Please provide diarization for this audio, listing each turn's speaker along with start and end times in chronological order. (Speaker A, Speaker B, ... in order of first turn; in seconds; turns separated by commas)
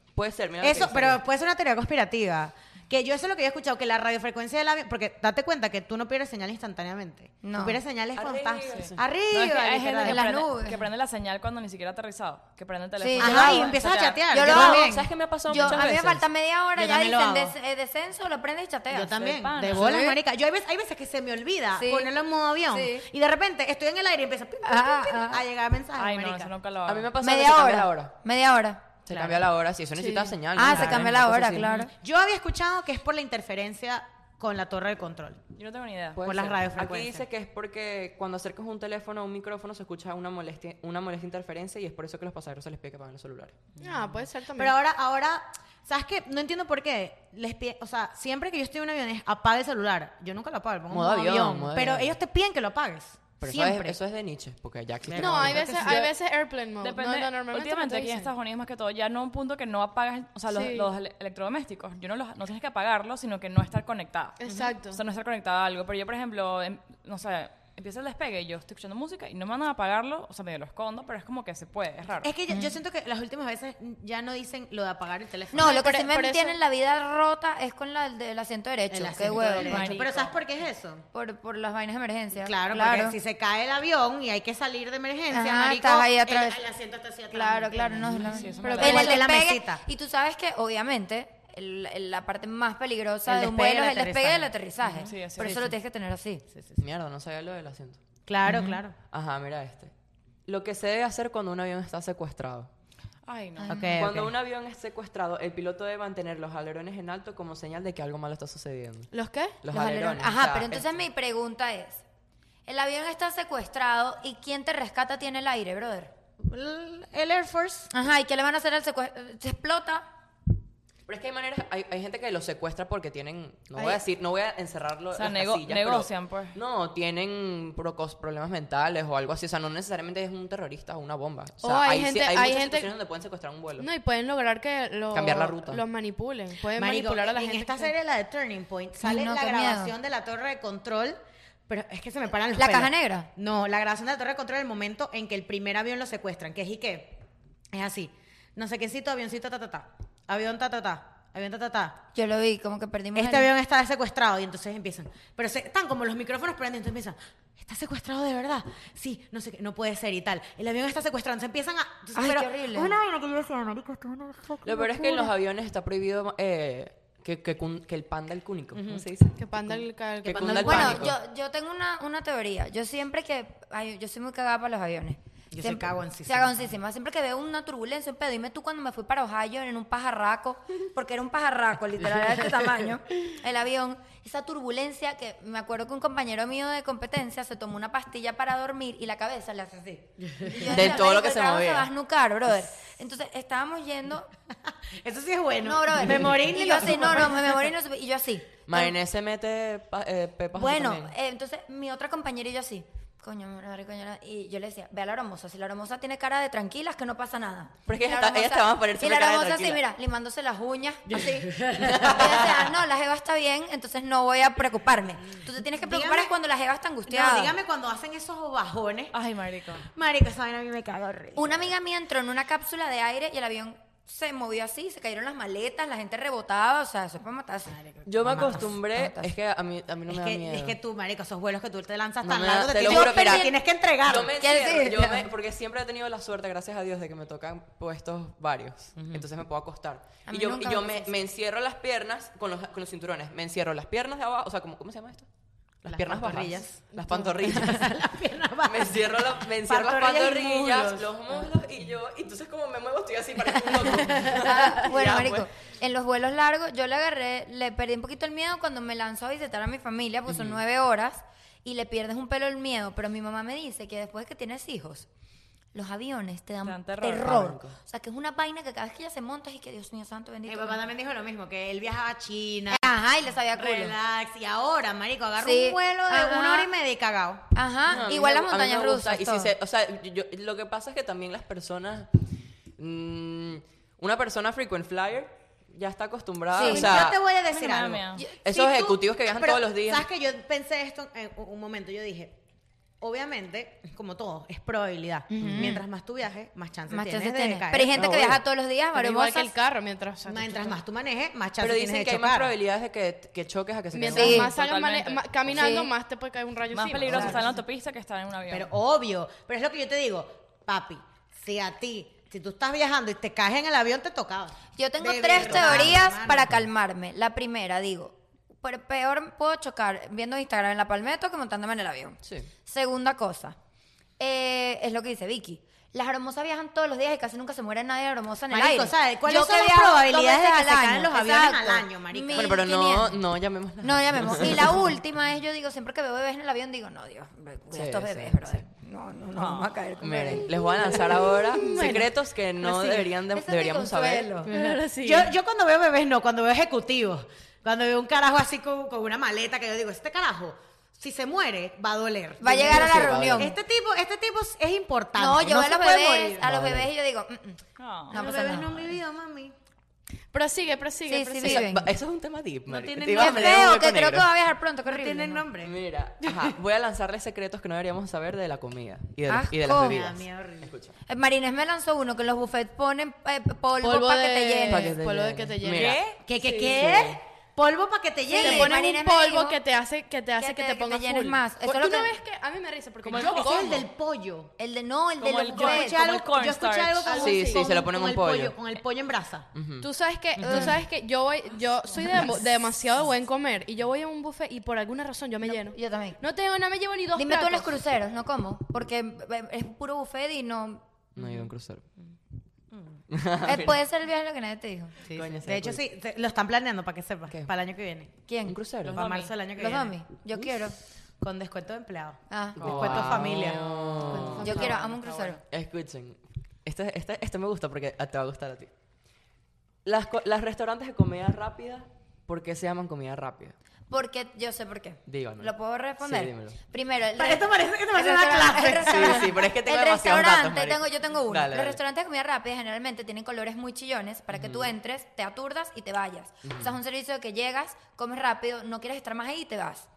Speaker A: 0.1-1.2, Speaker B: 0.6-10.2, Speaker C: 7.4-7.8, Speaker A: 8.2-9.0, Speaker D: 8.7-14.2, Speaker C: 10.0-10.8, Speaker C: 13.0-13.8, Speaker B: 13.2-15.9, Speaker C: 14.3-20.2, Speaker A: 14.4-16.2, Speaker B: 16.7-17.5, Speaker B: 18.9-26.5, Speaker D: 19.1-20.1, Speaker C: 21.8-22.1, Speaker C: 22.7-23.1, Speaker C: 24.6-25.4, Speaker D: 26.0-27.1, Speaker A: 26.9-28.1, Speaker C: 27.2-28.9, Speaker A: 29.0-31.8, Speaker B: 29.1-29.4, Speaker E: 29.9-30.4, Speaker C: 30.5-31.9, Speaker B: 32.0-35.4, Speaker D: 35.5-36.5, Speaker A: 36.2-43.6, Speaker B: 36.2-37.2, Speaker E: 43.8-44.7, Speaker B: 43.8-54.0, Speaker A: 50.9-52.1, Speaker A: 53.4-56.0, Speaker B: 55.0-56.0, Speaker E: 55.1-58.3, Speaker D: 55.5-56.1, Speaker D: 56.8-72.3, Speaker E: 60.5-60.9, Speaker E: 64.4-65.0, Speaker B: 64.5-64.7, Speaker B: 72.2-75.7, Speaker C: 75.5-80.0, Speaker E: 75.6-76.6, Speaker B: 78.9-81.0, Speaker D: 79.5-80.4, Speaker C: 81.1-83.2, Speaker B: 82.3-89.8, Speaker C: 85.3-86.6, Speaker C: 87.3-96.4, Speaker D: 88.2-89.2, Speaker E: 88.5-89.0, Speaker B: 93.2-95.7, Speaker D: 95.1-95.6, Speaker B: 96.5-96.8, Speaker A: 96.8-98.0, Speaker B: 98.2-98.9, Speaker C: 98.4-98.8, Speaker A: 99.1-99.9, Speaker A: 100.5-102.7, Speaker D: 103.3-103.7, Speaker C: 103.6-104.2, Speaker B: 103.7-104.3, Speaker A: 104.0-110.9, Speaker E: 109.1-109.6, Speaker C: 109.7-112.0, Speaker C: 112.7-116.1, Speaker B: 116.4-117.9, Speaker C: 117.9-120.1, Speaker A: 121.1-133.9, Speaker D: 125.1-126.6, Speaker E: 131.6-132.9, Speaker E: 133.8-137.9, Speaker A: 135.1-135.8, Speaker B: 136.8-147.2, Speaker C: 139.0-139.9, Speaker C: 142.5-143.3, Speaker B: 147.7-152.0, Speaker C: 152.1-153.5, Speaker B: 153.1-165.2, Speaker C: 162.1-162.9, Speaker A: 164.6-171.1, Speaker B: 168.7-169.0, Speaker E: 169.4-170.8, Speaker B: 170.2-171.1, Speaker C: 170.5-194.3, Speaker B: 175.5-176.7, Speaker B: 190.2-190.7, Speaker A: 190.6-191.9, Speaker B: 195.0-197.6, Speaker C: 195.6-198.9, Speaker A: 198.7-201.1, Speaker C: 200.5-217.6, Speaker A: 207.9-209.8, Speaker B: 211.1-212.6, Speaker A: 211.8-212.7, Speaker B: 215.7-216.3, Speaker B: 217.1-219.1, Speaker D: 219.1-219.8, Speaker B: 219.7-221.7, Speaker C: 221.3-229.3, Speaker B: 227.8-228.6, Speaker A: 228.1-230.8, Speaker B: 230.1-234.3, Speaker A: 232.2-233.5, Speaker C: 232.8-233.5, Speaker A: 234.0-245.3, Speaker C: 234.4-235.3, Speaker B: 239.0-239.2, Speaker C: 240.3-241.1, Speaker A: 245.8-248.1, Speaker B: 245.8-246.8, Speaker E: 247.0-247.3, Speaker B: 247.4-251.1, Speaker A: 248.7-255.5, Speaker B: 253.7-254.4, Speaker C: 254.3-265.1, Speaker A: 260.3-260.6, Speaker C: 265.7-270.8, Speaker D: 266.6-267.4, Speaker A: 266.9-267.8, Speaker B: 270.5-273.0, Speaker C: 272.7-273.9, Speaker B: 273.5-277.5, Speaker C: 275.4-276.7, Speaker C: 277.5-279.5, Speaker A: 277.9-282.1, Speaker A: 282.8-287.2, Speaker C: 286.5-287.1, Speaker B: 286.6-292.3, Speaker D: 287.5-288.2, Speaker A: 288.4-290.0, Speaker B: 293.0-298.4, Speaker C: 295.3-295.8, Speaker A: 295.4-295.7, Speaker C: 296.9-299.5, Speaker A: 297.9-298.4, Speaker E: 298.9-300.8, Speaker B: 300.2-302.5, Speaker A: 301.6-304.5, Speaker E: 303.9-307.5, Speaker C: 304.1-304.5, Speaker D: 304.3-305.3, Speaker C: 305.5-305.9, Speaker D: 306.7-308.7, Speaker C: 307.1-307.4, Speaker B: 308.5-316.5, Speaker C: 314.8-323.6, Speaker A: 315.4-315.9, Speaker A: 322.2-322.5, Speaker C: 324.2-333.2, Speaker B: 328.5-332.7, Speaker A: 332.3-334.9, Speaker C: 333.8-341.0, Speaker A: 337.7-338.6, Speaker D: 339.3-339.7, Speaker A: 340.0-344.4, Speaker B: 341.2-342.1, Speaker E: 341.6-342.0, Speaker B: 342.6-343.0, Speaker C: 342.6-344.6, Speaker B: 344.3-356.4, Speaker E: 344.5-345.3, Speaker C: 352.4-353.6, Speaker A: 352.5-353.5, Speaker C: 355.1-358.9, Speaker A: 356.4-356.9, Speaker D: 357.8-358.3, Speaker B: 358.1-359.5, Speaker E: 360.3-361.6, Speaker C: 361.1-361.9, Speaker A: 361.4-364.3, Speaker B: 362.7-363.8, Speaker C: 363.2-365.4, Speaker B: 364.8-366.5, Speaker A: 365.6-370.9, Speaker C: 369.3-370.0, Speaker B: 369.8-370.7, Speaker C: 371.1-375.0, Speaker E: 373.8-376.8, Speaker A: 374.7-376.0, Speaker D: 375.7-376.2, Speaker B: 376.2-378.7, Speaker A: 376.7-377.2, Speaker E: 378.3-383.8, Speaker C: 378.3-379.6, Speaker C: 380.4-382.1, Speaker D: 383.0-383.8, Speaker B: 383.1-384.5, Speaker C: 384.6-386.0, Speaker D: 385.2-387.6, Speaker B: 385.5-389.5, Speaker E: 387.1-387.6, Speaker A: 387.1-388.6, Speaker A: 389.5-390.8, Speaker E: 389.8-397.8, Speaker C: 395.4-396.2, Speaker C: 397.1-400.8, Speaker A: 401.1-401.8, Speaker B: 402.7-403.0, Speaker A: 403.1-403.8, Speaker C: 403.4-404.9, Speaker B: 405.0-408.1, Speaker A: 405.1-405.8, Speaker C: 408.3-408.6, Speaker A: 408.4-408.9, Speaker D: 408.8-409.3, Speaker B: 408.8-410.0, Speaker C: 409.6-410.8, Speaker B: 411.2-414.8, Speaker C: 412.3-413.1, Speaker A: 412.6-414.7, Speaker D: 412.6-415.4, Speaker C: 414.1-415.4, Speaker A: 415.5-418.7, Speaker A: 419.8-423.5, Speaker C: 423.9-439.9, Speaker A: 425.1-426.6, Speaker B: 427.2-429.4, Speaker A: 428.8-431.8, Speaker A: 434.3-434.7, Speaker A: 436.4-436.7